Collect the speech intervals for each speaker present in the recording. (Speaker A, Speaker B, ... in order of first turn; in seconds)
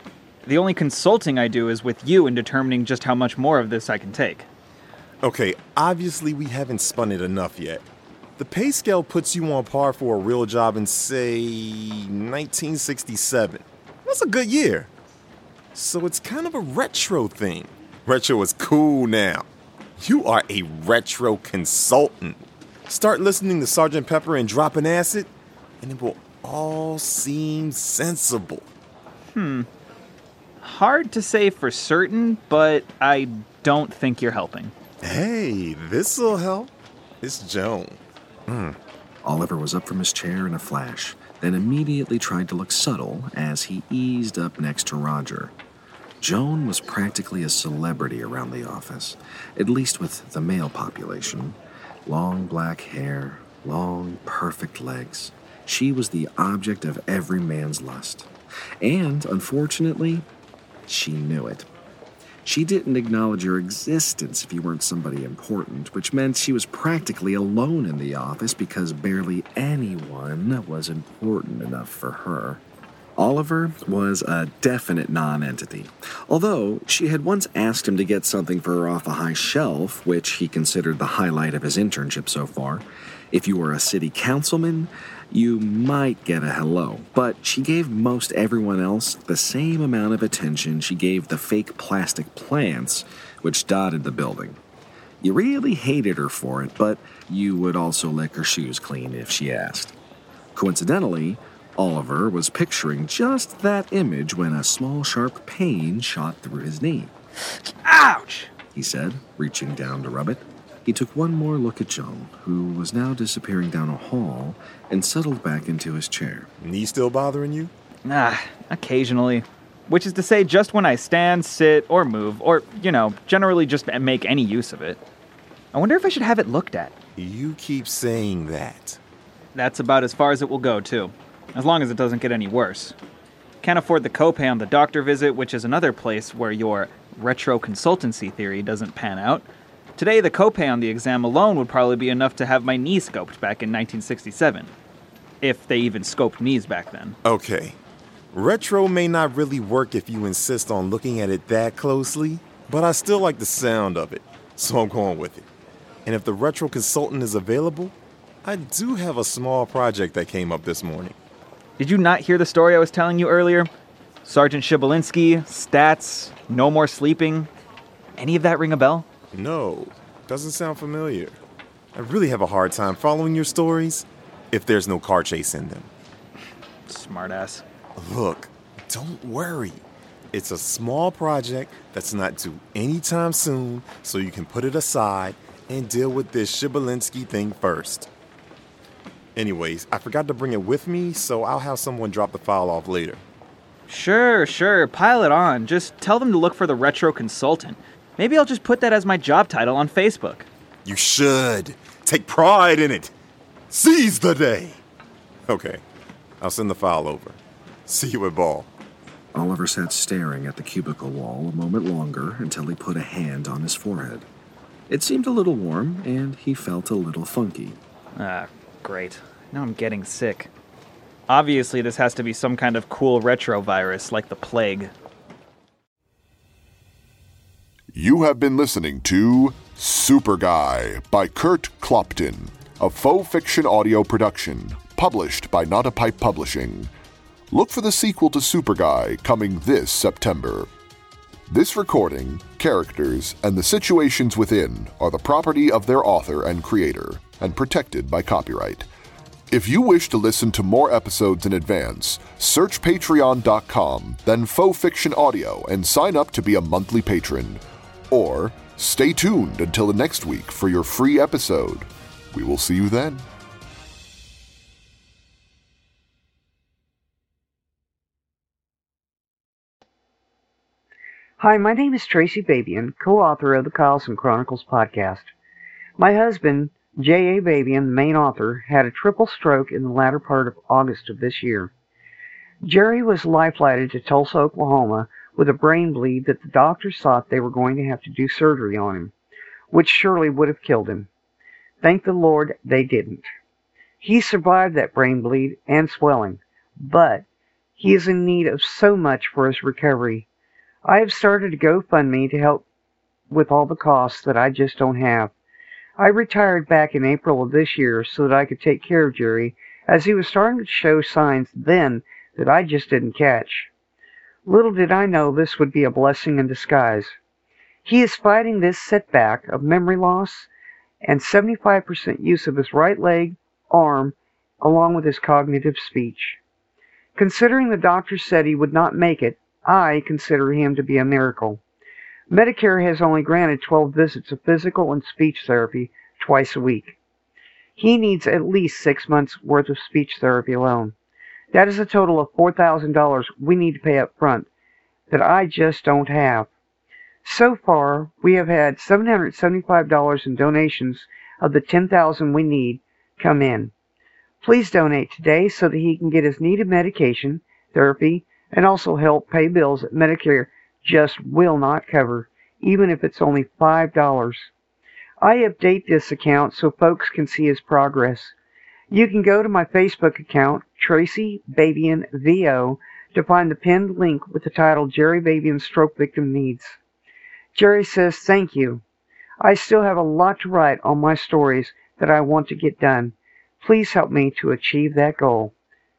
Speaker A: 0.5-4.5, 29.3-29.7, 30.6-34.7, 107.7-108.5, 118.0-125.0, 125.7-126.9, 129.6-133.0, 133.6-139.5, 140.0-144.7, 145.4-147.2, 161.8-163.7, 164.2-167.5, 168.2-169.1, 176.9-177.6, 193.9-200.5, 218.2-220.5, 221.3-224.9
Speaker B: 5.2-7.8, 8.4-14.9, 15.7-19.5, 20.0-28.7, 35.0-38.8, 116.6-117.7, 127.2-129.0, 147.2-147.8, 148.3-155.5, 156.1-161.2, 169.3-171.4, 171.9-175.9, 178.0-188.1, 189.4-193.2, 200.8-203.1, 203.7-204.8, 205.5-205.8, 206.4-208.7
Speaker C: 39.2-45.5, 46.2-58.3, 58.8-60.3, 60.9-61.7, 62.4-72.6, 73.2-94.6, 95.2-100.0, 100.5-107.1, 108.7-116.5, 209.3-214.3, 214.9-217.8
Speaker D: 227.9-236.9, 237.5-240.7, 241.5-248.9, 249.5-263.2
Speaker E: 271.4-275.3, 276.0-281.7, 282.6-289.1, 289.7-291.1, 291.8-293.3, 294.0-297.2, 297.8-300.3, 300.9-302.6, 303.3-305.3, 306.0-313.7, 314.4-317.1, 317.9-320.5, 321.0-326.4, 327.1-331.6, 332.3-337.0, 337.8-340.9, 341.5-344.5, 345.1-346.5, 347.2-353.7, 354.4-364.5, 365.2-368.3, 368.9-376.8, 377.5-378.8, 379.4-385.5